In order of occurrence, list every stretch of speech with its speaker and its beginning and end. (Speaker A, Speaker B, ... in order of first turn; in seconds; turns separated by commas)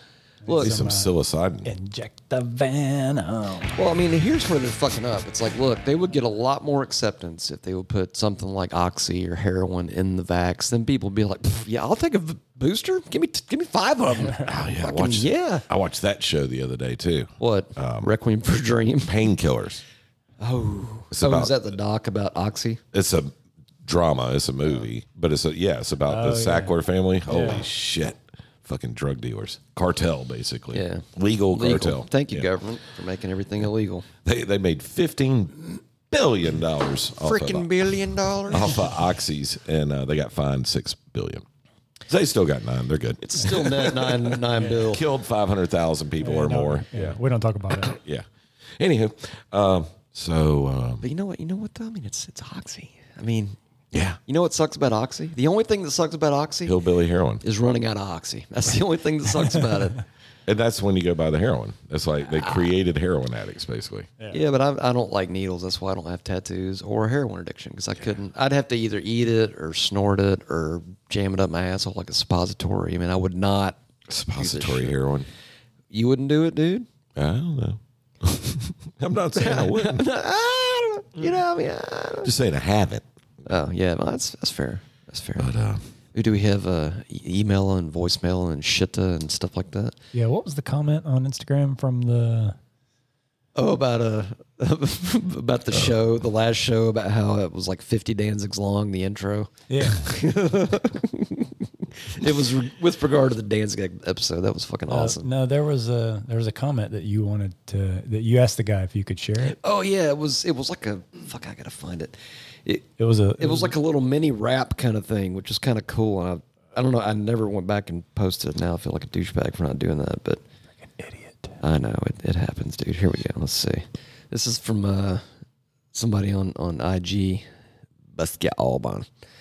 Speaker A: 0.4-0.7, Speaker B: 0.4-1.1, Speaker C: 0.6-1.7, Speaker B: 1.6-3.8, Speaker A: 3.8-15.6, Speaker C: 14.4-18.1, Speaker A: 17.4-19.2, Speaker C: 19.0-19.8, Speaker A: 20.4-22.8, Speaker C: 21.1-21.7, Speaker C: 22.9-32.5, Speaker B: 26.1-26.7, Speaker B: 27.3-27.7, Speaker A: 30.7-34.1, Speaker C: 34.2-37.7, Speaker A: 37.2-38.8, Speaker C: 38.5-41.4, Speaker C: 42.1-44.1, Speaker A: 43.2-45.0, Speaker C: 44.6-47.2, Speaker B: 46.2-48.0, Speaker C: 47.8-48.2, Speaker C: 48.8-51.0, Speaker A: 51.0-53.6, Speaker C: 53.9-54.2, Speaker A: 54.2-56.8, Speaker C: 56.6-57.4, Speaker A: 57.4-60.0, Speaker C: 60.5-64.1, Speaker A: 64.3-73.8, Speaker C: 74.1-75.3, Speaker A: 74.4-75.0, Speaker A: 75.9-76.8, Speaker C: 77.2-80.0, Speaker A: 79.3-82.3, Speaker C: 82.2-83.0, Speaker A: 83.5-85.5, Speaker C: 85.4-85.8, Speaker A: 86.1-90.0, Speaker B: 90.1-92.6, Speaker A: 93.5-101.5, Speaker B: 99.7-100.1, Speaker A: 102.0-105.3, Speaker B: 104.9-109.6, Speaker A: 109.5-120.4, Speaker B: 113.0-113.7, Speaker B: 120.8-121.6, Speaker A: 121.6-125.2, Speaker A: 125.9-127.4, Speaker A: 128.1-129.1